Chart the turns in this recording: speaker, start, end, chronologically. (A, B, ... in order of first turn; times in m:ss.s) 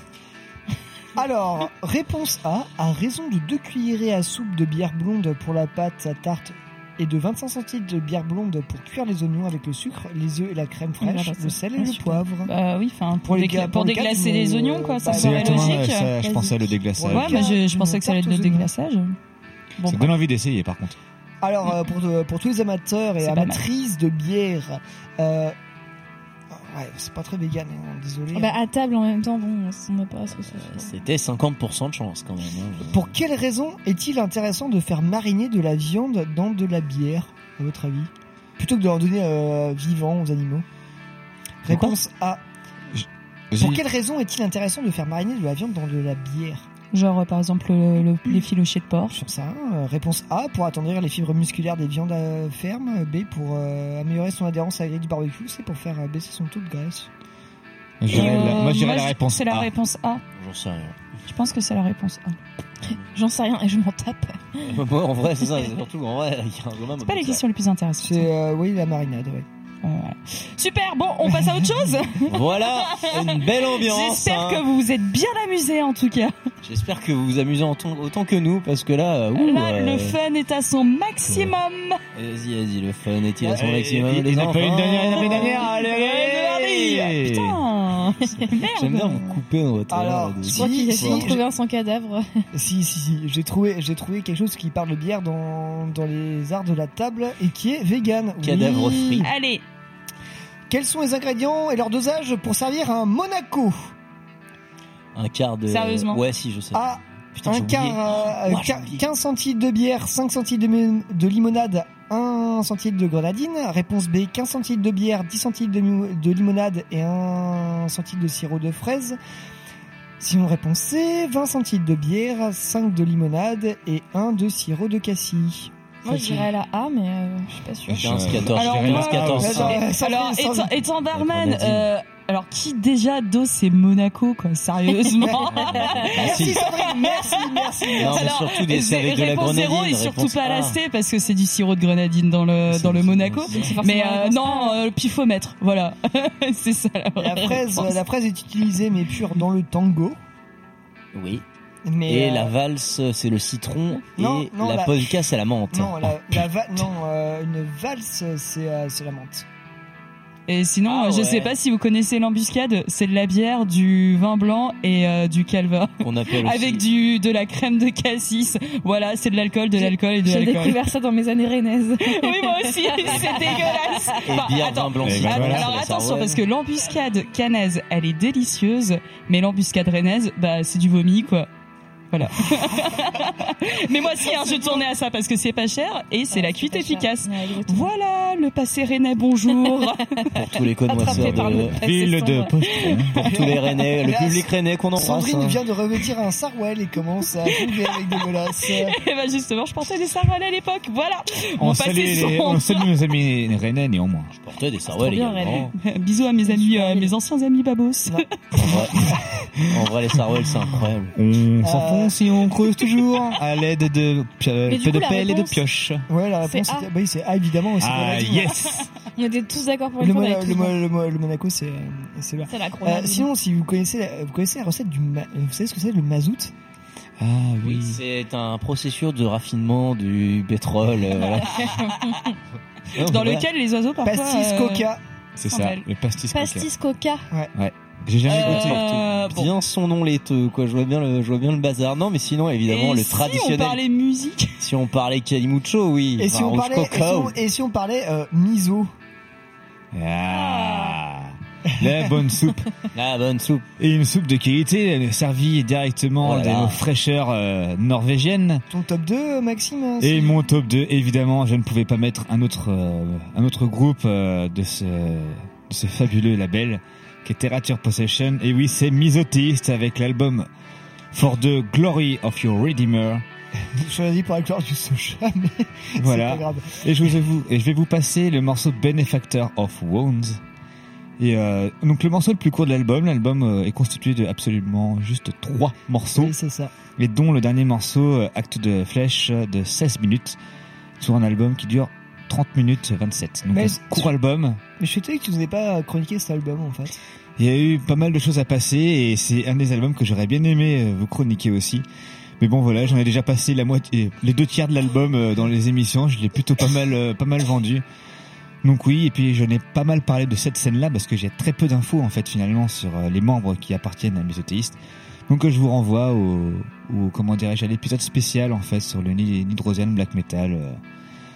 0:01.2-0:12.5 A
0:11.0-0:12.2 B
0:12.4-0:16.1 C
0:13.2-0:15.8 A
0:15.1-0:17.4 D
0:15.2-0:15.5 B
0:16.2-0:16.5 B
0:16.9-0:18.7 A
0:17.1-0:19.2 C
0:19.8-0:20.1 C
0:19.8-0:21.0 D
0:21.4-0:25.5 A
0:23.2-0:23.6 C
0:26.5-0:28.6 A
0:28.3-0:30.9 B
0:30.5-0:33.1 E
0:32.8-0:40.6 A
0:41.6-0:42.4 A
0:41.7-0:41.9 E
0:42.9-0:43.8 D
0:43.6-0:46.7 A
0:46.9-0:49.1 C
0:49.1-0:57.1 A
0:58.0-0:59.7 D
0:58.1-1:00.2 C
1:00.3-1:01.0 E
1:01.3-1:02.4 C
1:02.8-1:04.8 B
1:04.6-1:07.4 E
1:07.0-1:08.3 C
1:08.0-1:09.4 A
1:09.8-1:12.3 C
1:11.5-1:11.8 A
1:12.3-1:14.6 E
1:13.0-1:16.3 C
1:16.6-1:20.2 E
1:19.3-1:22.0 C
1:22.1-1:25.7 E
1:23.4-1:27.6 D
1:25.2-1:29.3 C
1:28.0-1:28.6 B
1:28.7-1:31.4 E
1:29.9-1:31.4 A
1:30.4-1:32.2 B
1:32.5-1:39.3 A
1:38.4-1:39.3 E
1:39.2-1:39.6 C
1:40.7-1:43.9 A
1:45.1-1:49.1 E
1:45.7-1:46.2 C
1:46.7-1:59.2 A
2:00.2-2:06.5 A
2:06.0-2:08.2 B
2:07.9-2:09.8 D
2:08.0-2:09.8 E
2:08.5-2:17.2 C
2:09.4-2:10.8 A
2:11.1-2:11.8 E
2:15.2-2:16.3 B
2:15.7-2:16.6 E
2:16.1-2:18.4 A
2:17.9-2:28.0 C
2:18.0-2:20.8 E
2:22.7-2:23.7 E
2:23.5-2:24.8 B
2:27.2-2:30.2 A
2:31.1-2:31.4 E
2:31.8-2:32.5 A
2:32.1-2:36.4 E
2:34.2-2:39.4 A
2:40.5-2:50.8 C
2:40.8-2:41.5 E
2:46.0-2:46.8 E
2:49.8-2:54.2 B
2:52.2-3:01.5 C
2:54.2-2:56.4 E
2:55.0-2:55.7 D
3:02.1-3:10.1 C
3:04.3-3:04.8 B
3:06.3-3:07.9 B
3:09.8-3:12.5 B
3:10.3-3:11.8 E
3:11.0-3:13.2 D
3:11.1-3:11.7 C
3:13.1-3:15.6 E
3:13.2-3:19.0 A
3:18.6-3:22.9 C
3:21.6-3:24.3 D
3:24.4-3:25.7 E
3:25.0-3:25.7 B
3:25.0-3:28.2 C
3:26.4-3:27.1 B
3:28.1-3:29.1 A
3:28.6-3:29.1 E
3:29.7-3:31.1 E
3:31.1-3:36.1 D
3:31.6-3:32.2 A
3:34.7-3:35.6 B
3:36.1-3:38.5 A
3:36.4-3:36.9 B
3:37.8-3:38.9 D
3:39.2-3:40.8 B
3:40.0-3:46.5 A
3:42.5-3:43.3 B
3:47.2-3:48.0 D
3:47.6-3:51.7 E
3:51.5-3:52.3 B
3:53.0-3:54.9 C
3:53.0-3:53.4 E
3:54.0-3:55.0 A
3:55.4-3:56.7 D
3:55.5-3:55.8 C
3:56.3-3:57.2 B
3:57.5-3:59.0 D
3:58.2-3:59.5 C
3:58.3-4:03.8 E
4:02.7-4:04.5 C
4:04.6-4:07.4 E
4:06.2-4:08.9 A
4:09.9-4:12.6 D
4:12.9-4:13.6 E
4:13.8-4:18.6 D
4:16.2-4:16.8 E
4:18.7-4:20.4 A
4:20.0-4:30.5 D
4:31.1-4:33.2 D
4:33.7-4:36.8 A
4:36.0-4:40.4 D
4:41.2-4:46.3 D
4:46.1-4:46.7 A
4:47.0-4:50.4 D
4:51.0-4:54.6 D
4:53.5-4:54.1 A
4:54.8-4:57.0 A
4:57.4-5:01.8 D
5:02.4-5:07.8 D
5:08.6-5:20.8 D